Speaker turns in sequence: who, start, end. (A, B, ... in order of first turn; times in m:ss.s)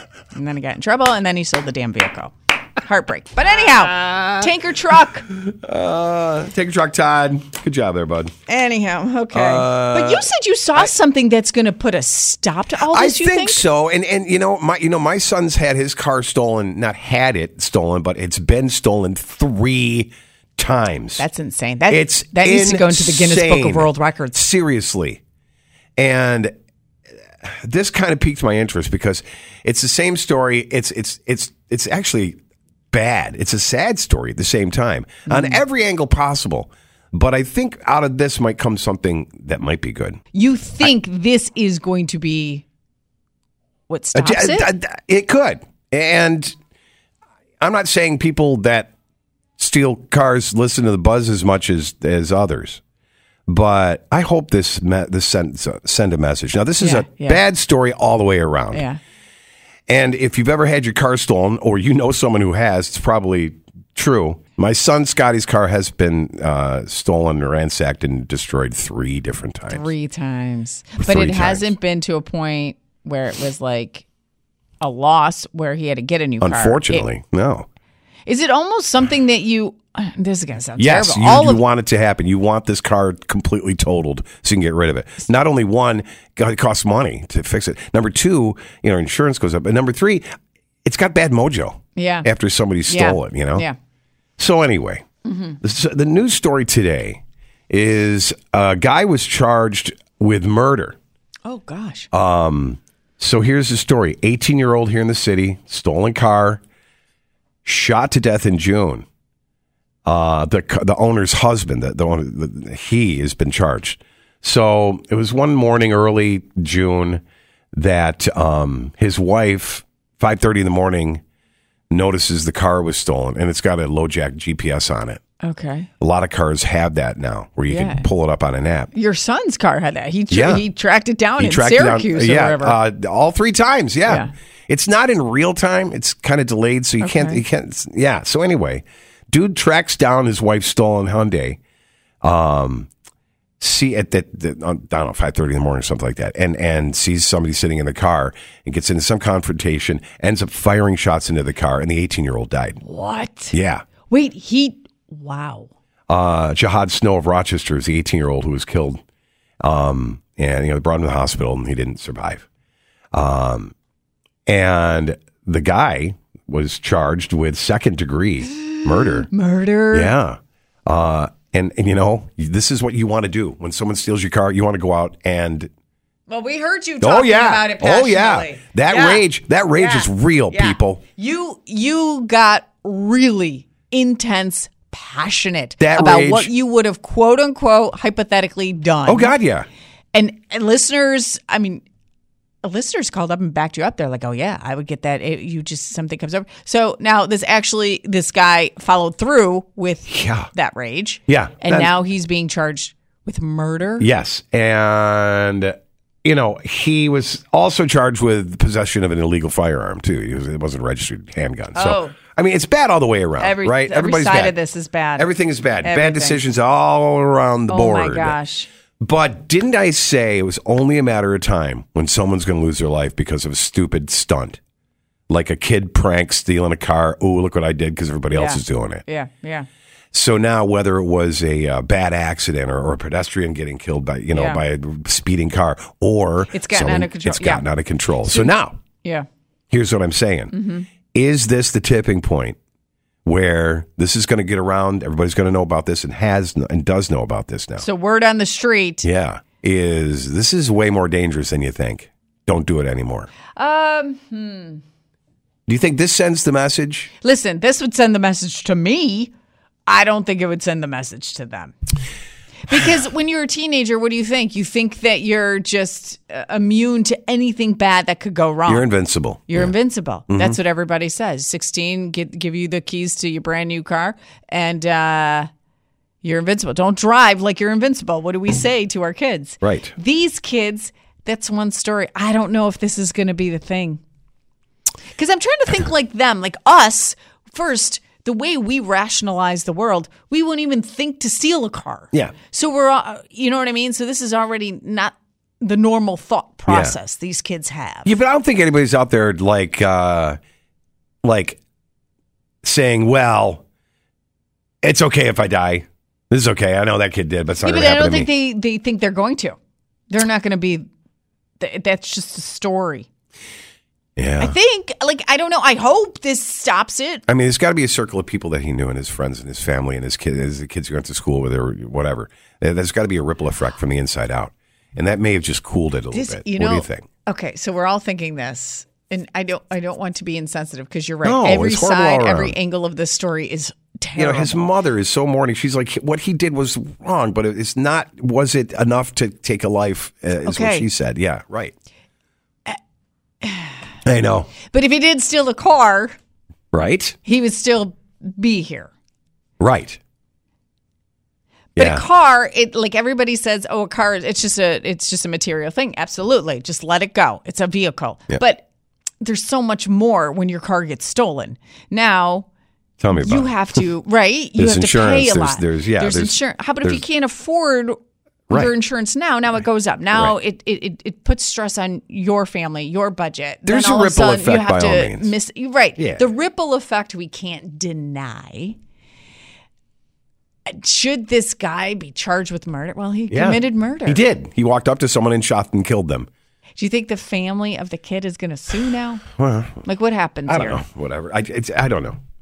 0:00.3-0:05.3 A
0:04.0-0:04.5 B
0:05.3-0:08.3 B
0:08.5-0:13.7 A
0:09.3-0:10.9 B
0:12.8-0:21.2 B
0:21.2-0:24.4 A
0:21.9-0:25.2 B
0:26.0-0:26.5 B
0:27.4-0:32.4 B
0:32.9-0:40.2 B
0:35.3-0:35.6 A
0:40.3-0:42.6 A
0:43.9-0:44.7 A
0:44.2-0:46.6 B
0:47.6-0:48.9 B
0:49.6-0:52.8 B
0:53.5-0:58.8 B
0:56.8-0:57.4 A
0:58.7-0:59.0 A
0:59.9-1:09.9 B
1:09.7-1:14.0 A
1:11.0-1:11.7 B
1:14.8-1:17.1 A
1:16.4-1:17.7 B
1:18.3-1:21.6 A
1:20.8-1:30.3 B
1:30.8-1:33.7 B
1:32.0-1:32.3 A
1:32.9-1:33.8 A
1:34.4-1:35.0 B
1:35.2-1:35.6 A
1:35.6-1:41.0 B
1:41.4-1:42.1 A
1:42.1-1:46.6 B
1:47.6-1:49.1 B
1:50.1-1:57.2 B
1:57.7-2:01.2 B
2:01.9-2:05.2 B
2:05.4-2:05.9 A
2:06.0-2:08.9 B
2:07.7-2:08.1 A
2:08.9-2:12.8 A
2:10.3-2:10.6 B
2:11.4-2:21.6 B
2:17.0-2:17.4 A
2:22.2-2:22.9 B
2:23.6-2:32.8 B
2:32.8-2:33.6 A
2:33.5-2:33.8 B
2:34.1-2:35.7 A
2:36.1-2:39.0 B
2:39.6-2:42.4 B
2:43.1-2:43.7 B
2:44.5-2:49.3 B
2:49.0-2:50.1 A
2:49.9-2:55.7 B
2:56.3-2:59.2 A
2:57.0-3:01.0 B
2:59.8-3:09.4 A
3:05.8-3:06.5 B
3:09.1-3:09.7 B
3:10.1-3:11.8 A
3:12.6-3:24.1 A
3:20.1-3:20.5 B
3:21.3-3:21.9 B
3:24.0-3:34.6 B
3:31.7-3:32.2 A
3:33.4-3:35.3 A
3:35.2-3:38.4 B
3:35.8-3:36.4 A
3:37.7-3:38.7 A
3:39.0-3:44.6 B
3:45.3-3:49.0 B
3:48.3-3:49.7 A
3:50.1-3:58.8 B
3:54.3-3:54.6 A
3:56.5-3:57.7 A
3:58.3-3:58.5 A
3:59.7-4:00.5 B
4:00.5-4:00.9 A
4:01.1-4:02.6 B
4:03.2-4:07.9 B
4:07.8-4:09.1 A
4:09.0-4:13.3 B
4:13.5-4:14.8 A
4:15.7-4:17.1 B
4:17.2-4:19.3 A
4:19.9-4:21.7 A
4:22.7-4:28.9 A
4:28.7-4:29.7 B
4:29.5-4:35.5 A
4:30.3-4:30.6 B
4:36.2-4:44.0 A
4:39.6-4:39.9 B
4:45.2-4:58.1 A
4:56.7-4:57.0 B
4:58.0-5:00.4 B
5:01.2-5:01.6 B
5:02.6-5:03.6 B
5:04.8-5:08.3 B
5:07.6-5:09.6 A
5:10.1-5:10.8 A
5:11.6-5:13.1 A
5:14.2-5:14.6 B
5:14.4-5:17.2 A
5:17.3-5:27.1 B
5:26.1-5:34.7 A
5:31.2-5:32.6 B
5:34.2-5:41.7 B
5:40.4-5:40.9 A
5:43.4-5:43.8 A
5:44.0-5:44.5 B
5:44.7-5:46.2 A
5:46.7-5:47.2 B
5:47.2-5:48.9 A
5:49.6-5:50.0 B
5:51.8-5:52.1 B
5:51.8-5:58.7 A
5:59.2-6:02.5 A
6:03.0-6:03.8 B
6:03.2-6:08.0 A
6:04.6-6:07.0 B
6:08.5-6:18.8 A
6:13.7-6:15.3 B
6:16.0-6:16.2 B
6:20.7-6:24.3 A
6:23.3-6:26.3 B
6:26.8-6:29.2 A
6:29.4-6:29.8 B
6:29.8-6:30.8 A
6:30.5-6:32.2 B